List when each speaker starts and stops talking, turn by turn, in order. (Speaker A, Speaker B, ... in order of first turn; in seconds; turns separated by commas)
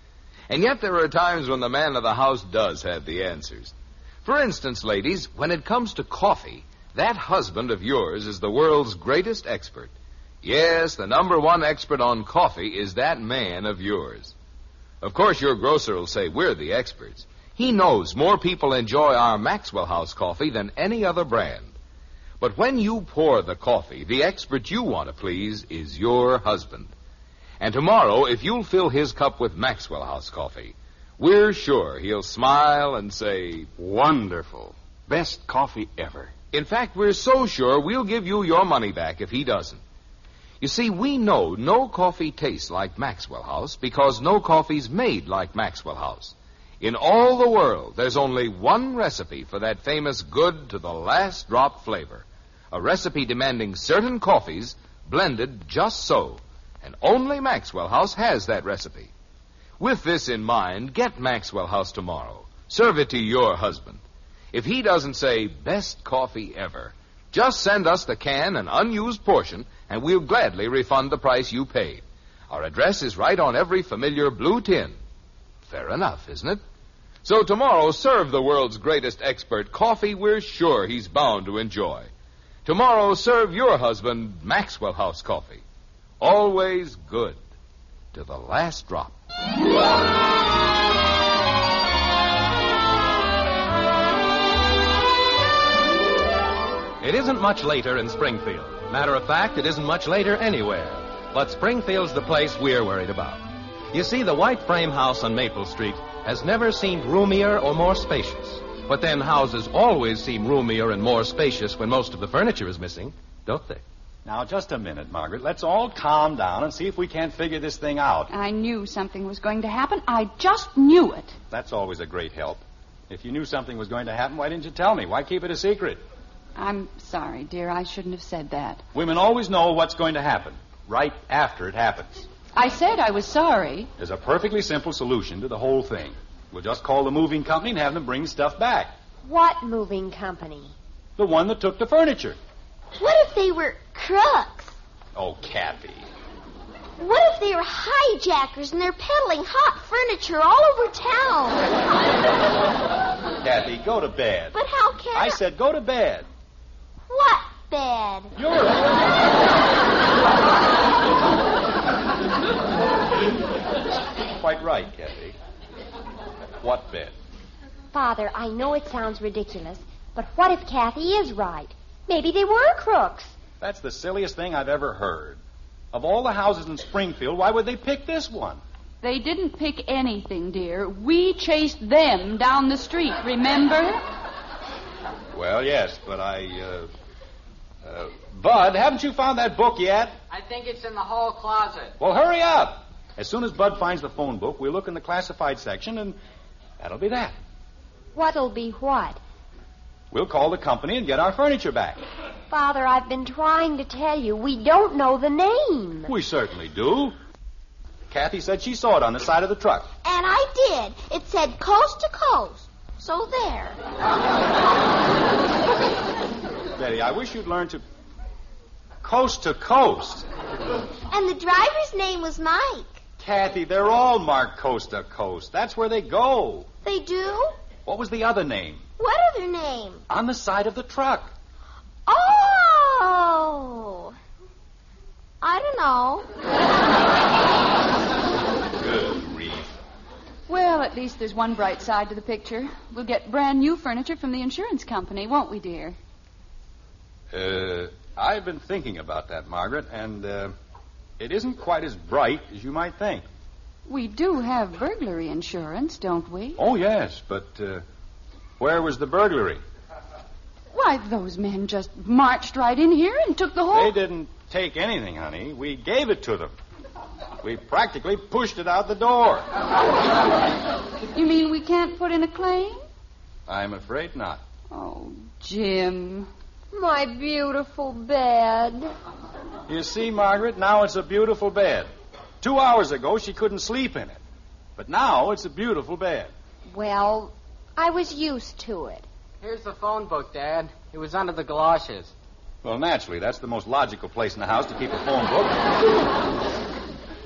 Speaker A: 0.5-14.3, Speaker A: 15.0-21.8, Speaker A: 22.4-26.9, Speaker A: 27.6-33.7, Speaker B: 33.8-36.3, Speaker A: 36.5-39.8, Speaker A: 40.6-59.1, Speaker A: 59.8-64.0, Speaker A: 64.5-75.0, Speaker A: 75.7-76.6, Speaker A: 77.2-82.1, Speaker A: 82.7-85.6, Speaker A: 86.2-87.4, Speaker A: 88.1-89.2, Speaker C: 97.0-113.8, Speaker B: 114.2-118.3, Speaker D: 118.3-121.4, Speaker B: 121.5-126.0, Speaker D: 126.6-128.8, Speaker B: 128.9-132.3, Speaker D: 132.5-133.9, Speaker B: 134.0-138.9, Speaker E: 139.2-140.7, Speaker B: 141.2-142.4, Speaker F: 143.0-144.8, Speaker B: 145.2-146.1, Speaker F: 147.0-151.7, Speaker B: 153.4-154.6, Speaker F: 154.5-155.4, Speaker B: 155.1-156.3, Speaker F: 157.1-158.3, Speaker B: 158.4-159.1, Speaker B: 164.3-165.4, Speaker B: 166.6-167.2, Speaker E: 167.9-173.3, Speaker B: 173.6-175.4, Speaker B: 175.9-178.6, Speaker D: 179.0-184.0, Speaker B: 185.3-186.9, Speaker B: 187.8-190.2, Speaker G: 190.3-192.0, Speaker B: 192.0-196.2, Speaker B: 196.8-197.4, Speaker E: 198.1-199.2, Speaker B: 200.1-202.0, Speaker E: 202.5-206.1, Speaker B: 206.1-207.2, Speaker B: 208.1-209.9, Speaker F: 210.0-213.8, Speaker B: 216.8-217.8, Speaker B: 219.0-220.3, Speaker F: 221.1-223.0, Speaker B: 223.2-226.7, Speaker F: 226.8-227.6, Speaker B: 227.9-228.8, Speaker F: 229.0-230.0, Speaker B: 230.1-231.3, Speaker F: 232.1-234.2, Speaker F: 235.4-236.3, Speaker B: 238.8-239.7, Speaker D: 240.5-246.0, Speaker B: 247.3-250.5, Speaker B: 251.2-253.2, Speaker D: 253.9-256.6, Speaker B: 256.6-257.8, Speaker B: 258.6-259.6, Speaker D: 260.7-263.9, Speaker B: 263.7-266.6, Speaker B: 267.4-269.5, Speaker D: 271.1-272.8, Speaker B: 273.5-274.4, Speaker D: 274.7-276.3, Speaker E: 276.7-278.9, Speaker B: 279.7-281.9, Speaker B: 282.4-284.2, Speaker B: 284.8-286.3, Speaker E: 286.7-289.1, Speaker G: 289.4-292.1, Speaker B: 292.6-295.8